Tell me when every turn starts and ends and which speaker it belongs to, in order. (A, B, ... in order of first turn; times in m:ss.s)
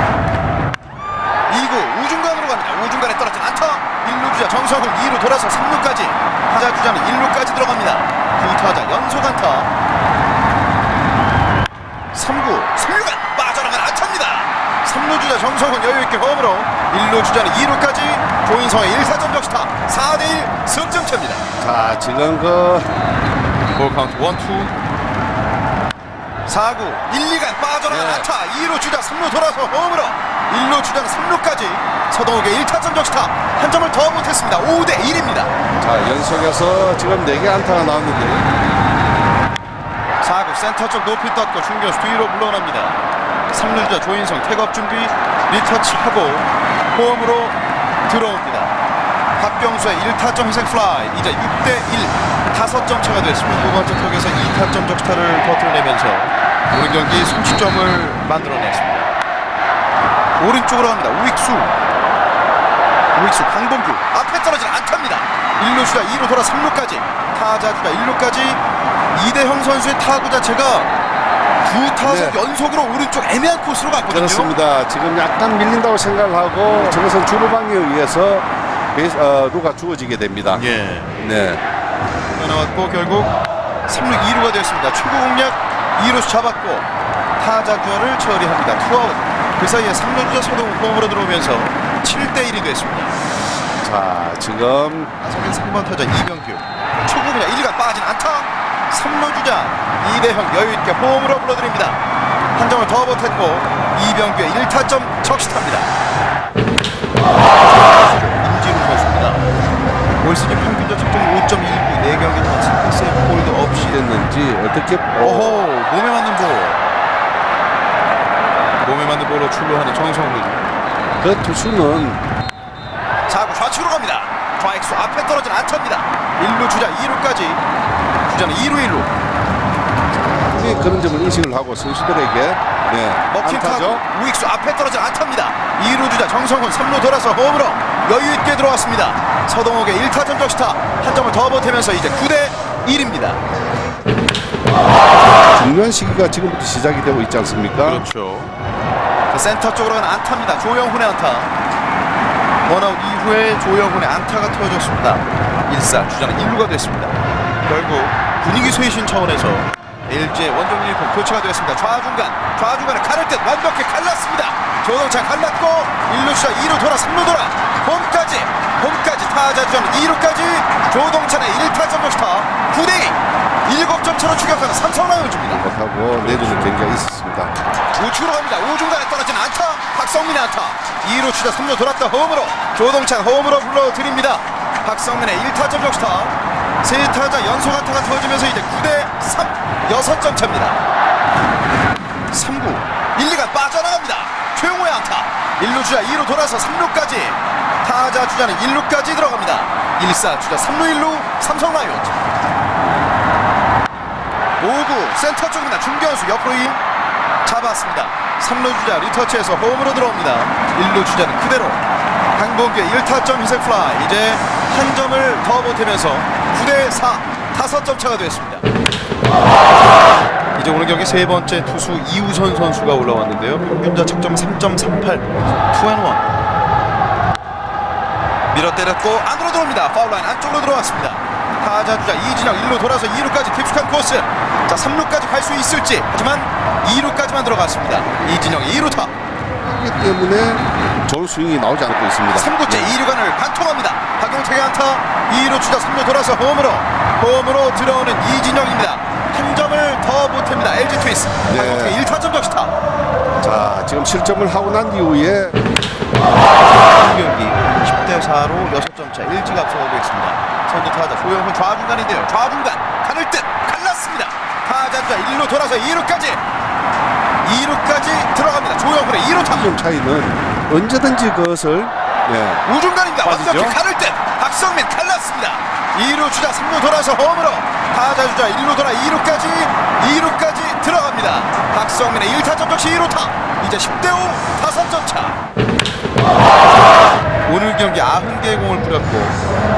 0:01.5-0:09.7 A
0:12.1-0:21.4 A
0:21.6-0:22.9 B
0:23.8-0:24.7 A
0:26.5-0:35.5 A
0:27.9-0:28.3 B
0:35.8-0:38.5 B
0:40.2-0:43.0 A
0:43.5-0:48.7 A
0:49.4-0:59.1 A
1:00.4-1:01.8 A
1:03.1-1:08.6 A
1:09.1-1:10.9 A
1:11.6-1:14.5 A
1:12.0-1:12.4 B
1:14.1-1:20.6 B
1:20.5-1:21.1 A
1:21.2-1:21.6 B
1:22.3-1:23.3 A
1:23.9-1:33.1 A
1:33.8-1:35.1 B
1:35.2-1:42.0 A
1:42.6-1:45.9 A
1:48.0-1:49.4 A
1:50.2-1:54.0 A
1:53.7-1:55.7 B
1:55.2-1:56.8 A
1:58.8-2:00.6 A
2:01.2-2:02.2 B
2:03.3-2:07.6 A
2:08.2-2:09.1 A
2:10.5-2:14.0 B
2:13.3-2:23.4 A
2:25.5-2:28.0 B
2:27.8-2:28.5 A
2:29.3-2:31.5 A
2:32.6-2:55.6 A
2:55.5-2:57.5 B
2:56.2-2:56.7 A
2:57.9-3:10.8 A
3:12.3-3:22.2 A
3:22.8-3:23.1 B
3:24.6-3:26.8 A
3:27.4-3:31.8 A
3:32.3-3:38.6 A
3:40.6-3:46.2 A
3:48.5-3:59.1 A
3:59.6-4:02.9 B
4:02.3-4:12.7 A
4:11.5-4:12.0 B
4:13.4-4:15.6 B
4:16.9-4:26.4 A
4:27.4-4:29.8 A
4:29.4-4:32.6 B
4:32.6-4:45.4 A
4:33.2-4:33.8 B
4:47.4-4:49.4 A